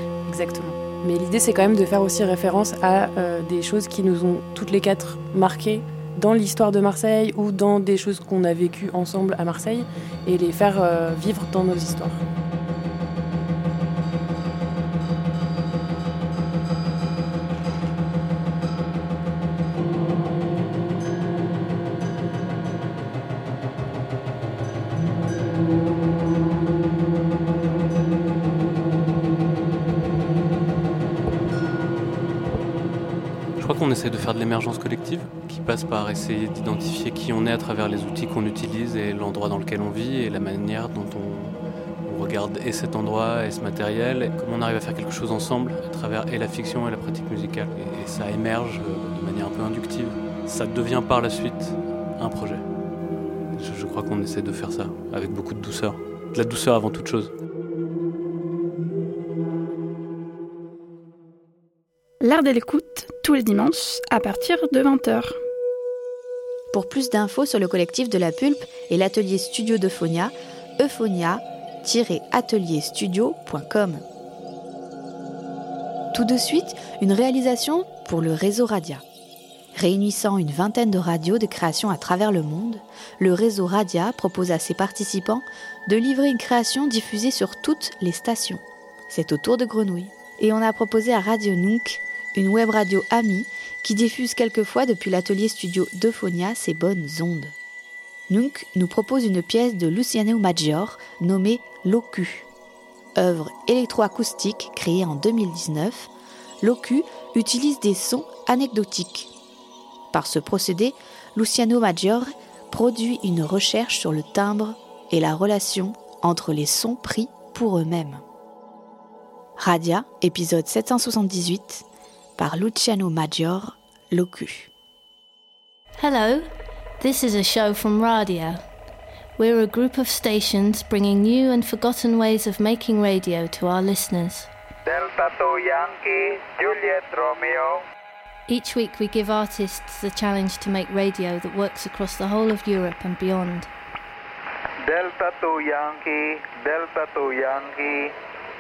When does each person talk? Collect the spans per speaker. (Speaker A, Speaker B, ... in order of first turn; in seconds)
Speaker A: 0.3-12.2
Speaker B: 33.6-41.5, 42.1-52.6, 53.5-57.3
Speaker C: 62.2-65.4
Speaker D: 66.7-74.0, 76.1-79.0, 79.7-97.5, 98.3-102.5, 103.2-106.1, 106.6-109.3, 110.1-118.2, 119.6-121.9, 122.4-124.7
Speaker E: 126.0-128.7, 129.4-134.6, 138.5-143.7
Speaker F: 134.9-137.8, 144.8-148.1